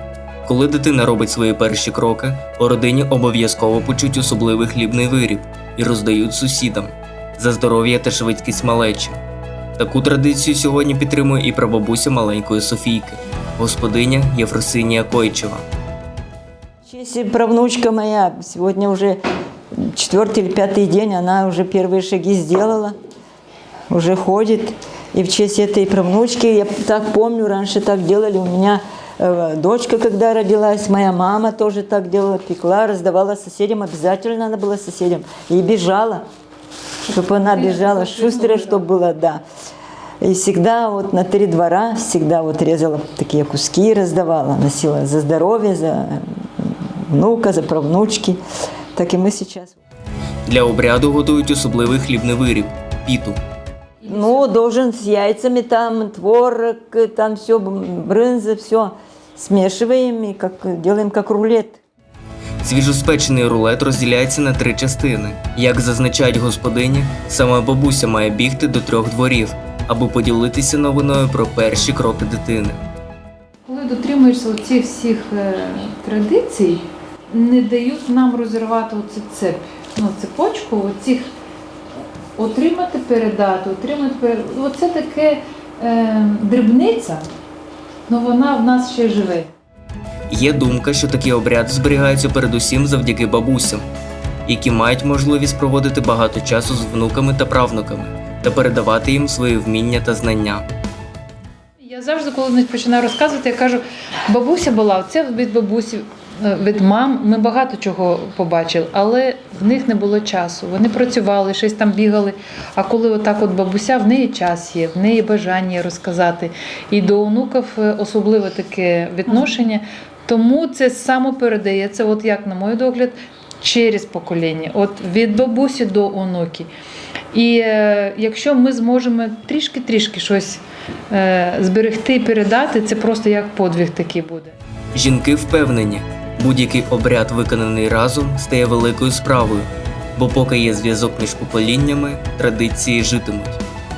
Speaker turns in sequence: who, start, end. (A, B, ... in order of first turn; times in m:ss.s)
0:00.4-0:09.2 A
0:09.8-0:15.6 A
0:16.9-0:19.2 B
0:19.8-0:23.0 B
0:23.9-0:36.2 B
0:37.1-0:38.9 C
0:37.1-0:39.4 B
0:40.2-0:48.4 B
0:49.0-0:49.8 B
0:50.4-0:53.4 A
0:54.0-0:54.5 C
0:54.0-1:01.8 B
1:02.6-1:12.8 A
1:13.6-1:21.3 C
1:22.4-1:27.2 C
1:28.1-1:29.5 C
1:30.3-1:33.8 A
1:34.4-1:40.6 A
1:41.8-2:06.7 C
2:07.3-2:14.5 C
2:14.9-2:23.6 A